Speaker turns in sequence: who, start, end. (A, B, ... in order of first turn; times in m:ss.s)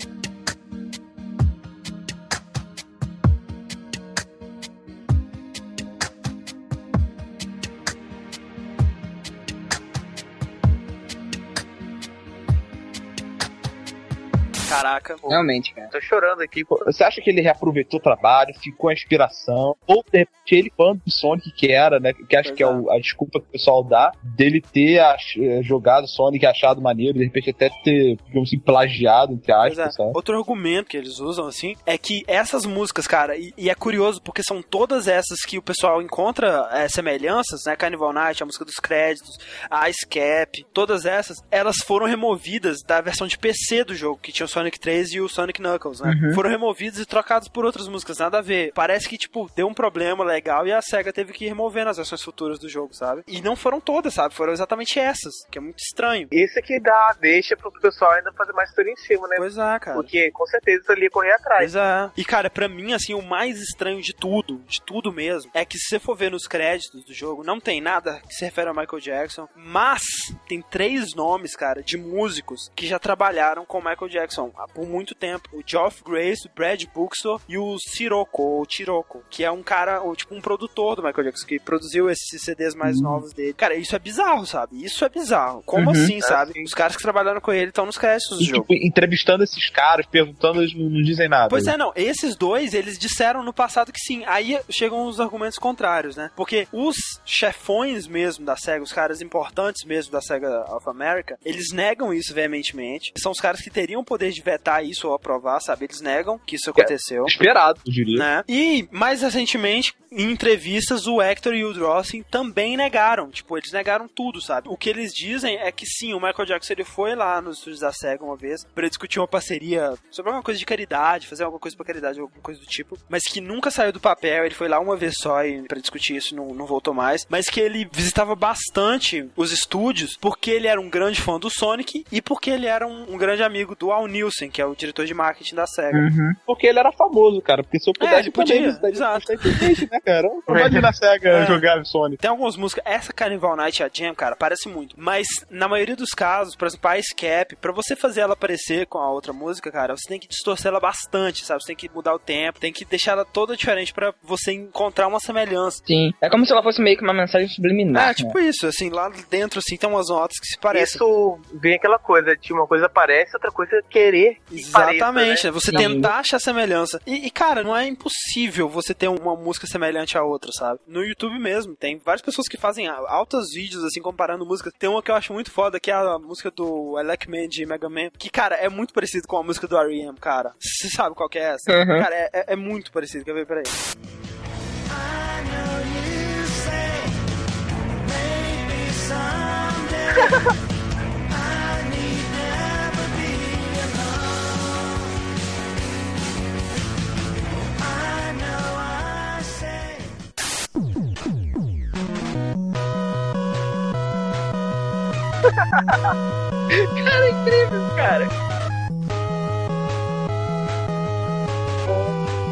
0:14.7-0:15.2 A
0:15.3-0:15.9 B
0:15.9-0:16.8 C
0:16.8-0:30.2 D
0:22.4-0:22.8 A
0:29.6-0:56.3 A
0:46.0-0:46.4 B
0:56.3-1:01.7 C
0:59.4-1:00.1 A
1:01.6-1:28.7 A
1:22.8-1:23.2 D
1:25.7-1:26.1 B
1:26.2-1:26.7 C
1:28.4-1:31.7 D
1:31.5-1:47.4 A
1:46.8-1:48.3 D
1:48.1-2:16.1 A
2:15.9-2:16.4 B
2:16.5-2:22.2 D
2:18.0-2:19.8 A
2:20.5-2:20.9 C
2:21.3-2:21.6 A
2:22.2-2:35.8 A
2:35.9-2:38.4 B
2:37.9-2:41.0 A
2:40.7-2:45.9 C
2:44.5-3:03.8 A
2:45.7-2:46.1 B
3:01.7-3:02.1 B
3:05.0-3:07.1 A
3:08.1-3:10.5 A
3:11.4-3:14.1 A
3:18.0-3:20.0 A
3:27.0-3:28.3 B